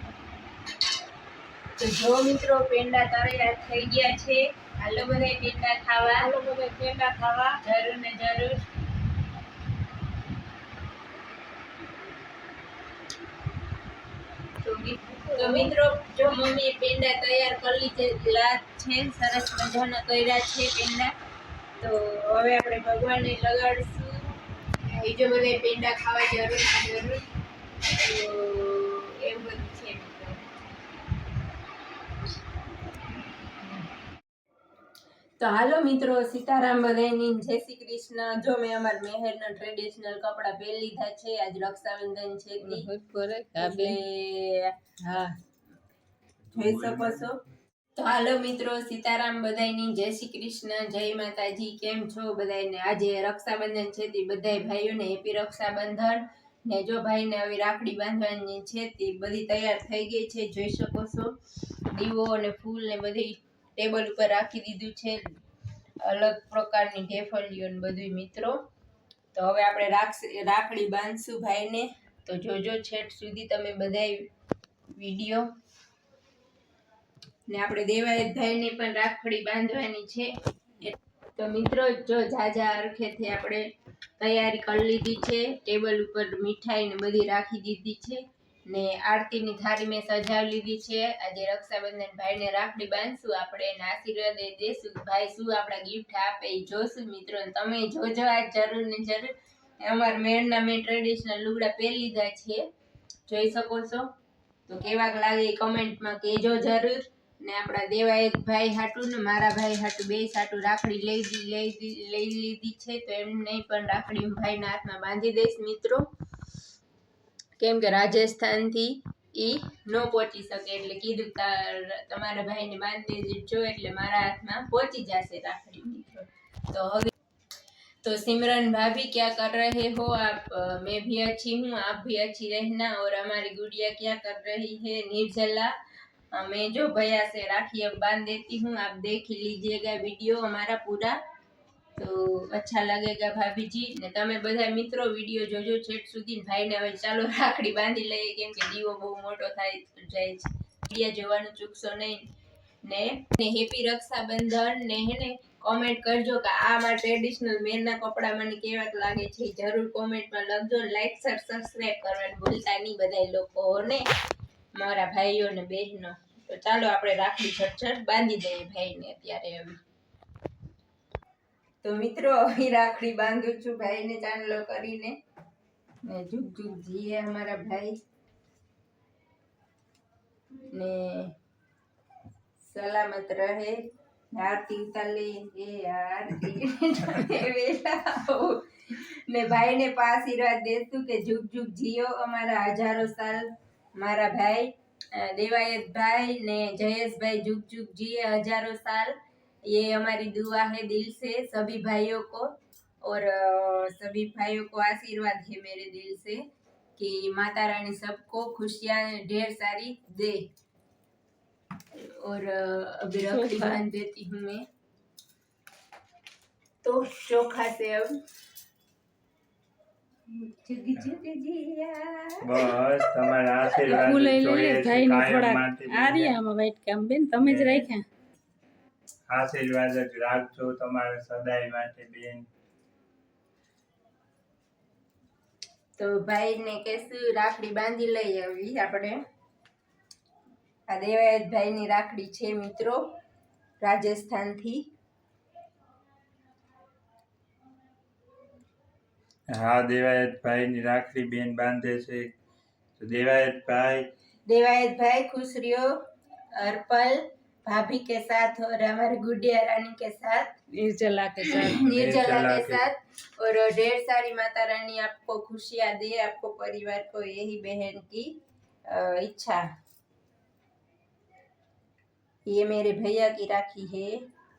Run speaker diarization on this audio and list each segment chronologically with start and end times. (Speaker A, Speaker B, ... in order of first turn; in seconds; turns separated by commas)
Speaker A: 1.8-6.3, Speaker B: 6.1-7.6, Speaker A: 7.6-8.7, Speaker B: 14.7-15.7, Speaker A: 15.3-21.1, Speaker A: 21.8-24.3, Speaker A: 24.9-27.2, Speaker A: 28.0-30.4, Speaker A: 35.4-42.9, Speaker B: 42.6-44.0, Speaker A: 43.6-44.9, Speaker B: 45.0-45.3, Speaker C: 46.5-47.2, Speaker A: 46.5-47.4, Speaker A: 48.0-61.4, Speaker A: 61.9-65.3, Speaker A: 66.0-68.6, Speaker A: 69.3-74.3, Speaker A: 74.9-75.5, Speaker A: 77.5-102.6, Speaker A: 103.3-104.1, Speaker A: 104.7-116.1, Speaker A: 117.6-127.1, Speaker A: 128.0-135.7, Speaker A: 136.3-141.2, Speaker A: 142.0-152.2, Speaker A: 152.8-164.1, Speaker A: 164.8-169.8, Speaker A: 171.8-175.2, Speaker A: 176.0-178.0, Speaker A: 180.7-181.3, Speaker A: 182.6-199.1, Speaker A: 199.7-202.5, Speaker A: 203.0-206.4, Speaker A: 207.0-210.5, Speaker A: 211.9-214.7, Speaker B: 213.2-213.8, Speaker A: 216.8-218.2, Speaker A: 220.3-222.8, Speaker C: 222.4-226.4, Speaker B: 223.8-228.0, Speaker C: 227.4-227.9, Speaker C: 229.3-232.4, Speaker A: 236.0-239.2, Speaker A: 240.9-243.2, Speaker A: 243.8-244.9, Speaker C: 249.5-252.3, Speaker C: 253.0-254.1, Speaker A: 254.5-256.0, Speaker A: 256.5-260.6, Speaker B: 260.7-261.8, Speaker A: 261.4-269.6, Speaker C: 261.7-262.8, Speaker A: 272.4-274.2